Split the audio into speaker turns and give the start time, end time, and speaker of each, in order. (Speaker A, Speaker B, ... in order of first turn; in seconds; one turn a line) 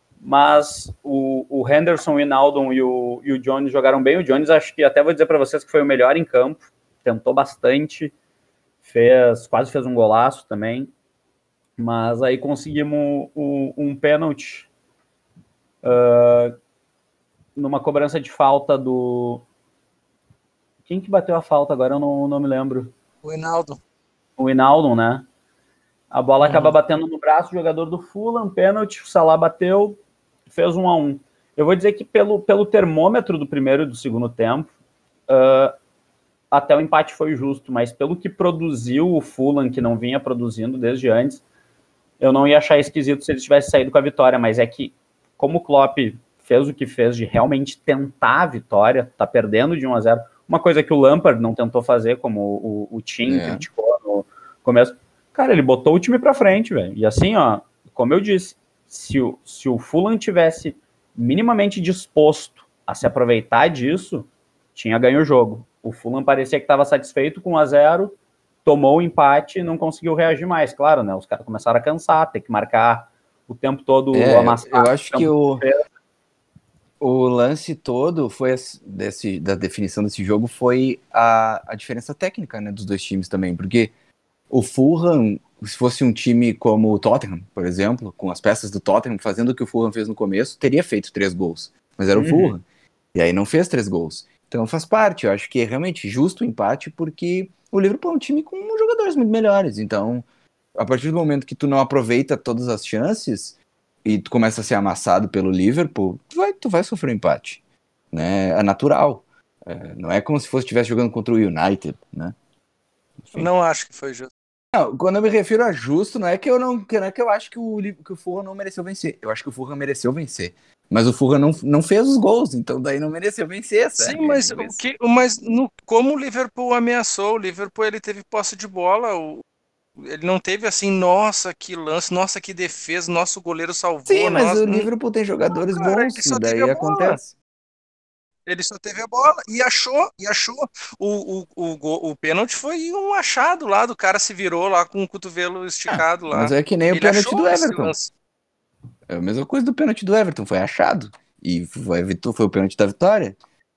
Speaker A: 0.2-8.1
Speaker A: 8.8-10.9
Speaker A: 11.8-14.7
Speaker A: 15.8-16.5
Speaker A: 17.6-19.4
Speaker A: 20.9-22.9
Speaker B: 23.2-23.8
Speaker A: 24.4-25.2
Speaker A: 26.1-34.7
Speaker B: 26.4-26.7
Speaker A: 35.3-35.7
Speaker A: 36.5-41.4
Speaker A: 42.2-75.8
Speaker C: 53.2-53.6
Speaker C: 74.1-75.7
Speaker C: 77.0-83.9
Speaker C: 84.5-107.6
Speaker A: 92.1-92.5
Speaker C: 108.1-112.3
Speaker C: 113.2-113.5
Speaker B: 113.3-114.3
Speaker C: 114.7-124.8
Speaker B: 124.0-129.4
Speaker B: 130.0-134.9
Speaker C: 134.1-137.3
Speaker B: 135.5-137.2
Speaker B: 138.4-148.1
Speaker C: 145.9-147.9
Speaker C: 149.1-153.4